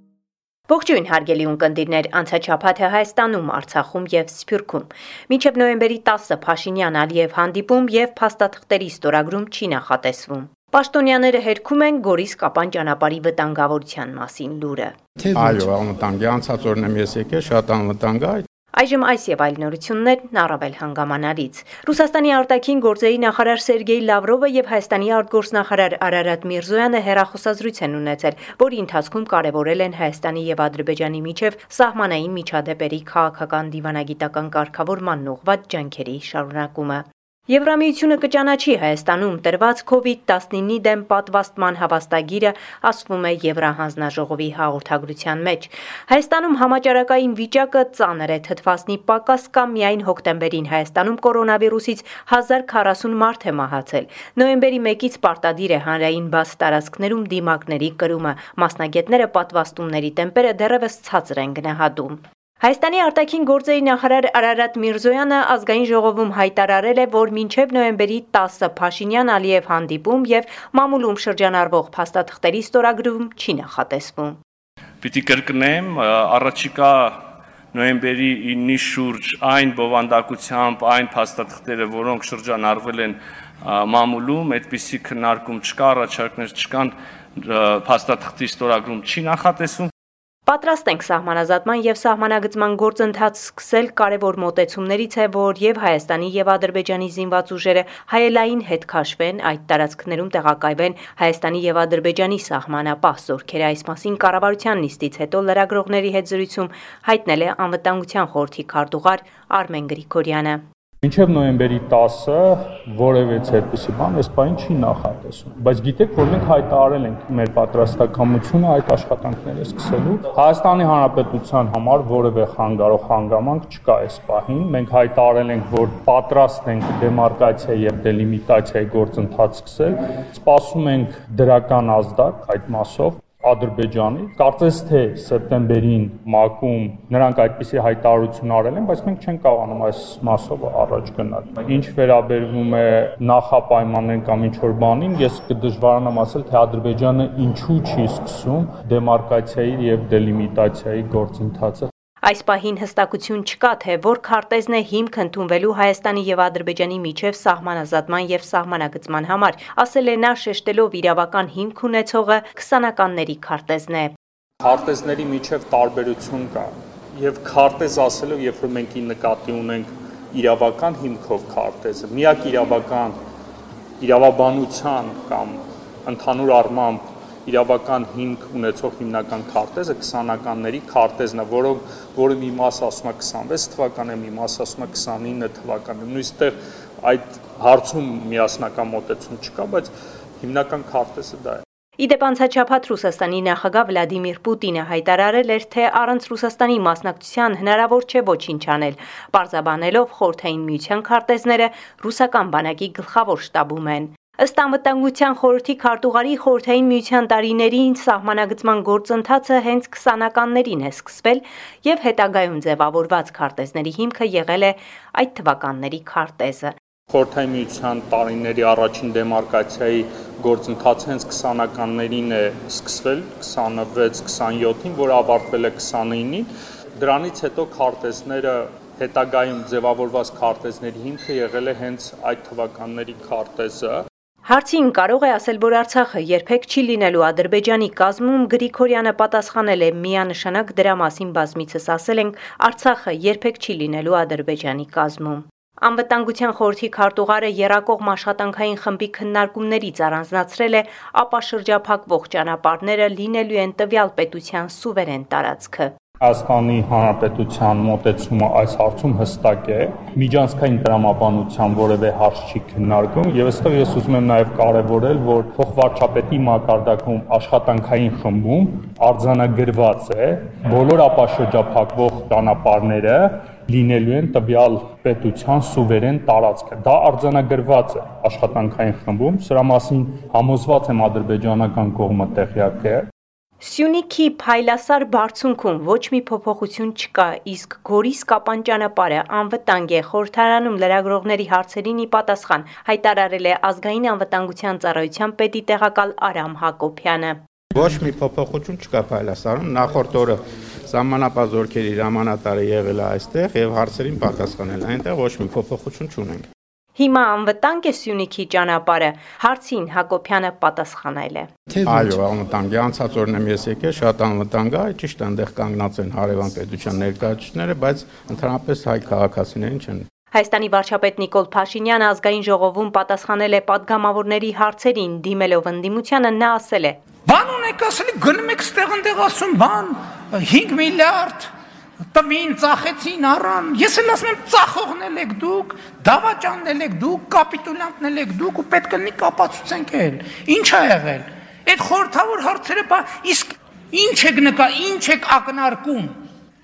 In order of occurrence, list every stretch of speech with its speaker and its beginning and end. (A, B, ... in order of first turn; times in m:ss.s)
0:00.7-0:14.9 A
0:15.3-0:18.4 B
0:18.7-1:14.4 A
1:15.0-1:17.2 C
1:17.7-1:29.9 C
1:30.5-1:50.6 A
1:51.0-2:31.9 D
2:32.2-2:44.1 A
2:44.6-2:53.2 D
2:54.0-3:09.9 D
3:10.4-3:11.6 D
3:12.0-3:36.7 A
3:37.1-3:54.0 D
3:54.4-4:15.9 A
4:16.2-4:43.0 D
4:43.6-4:57.4 A
4:57.7-5:00.4 B
5:00.9-5:06.4 B
5:07.0-5:11.5 A
5:11.8-5:20.0 B
5:20.3-5:27.0 A
5:27.2-5:31.5 E
5:32.1-5:46.2 E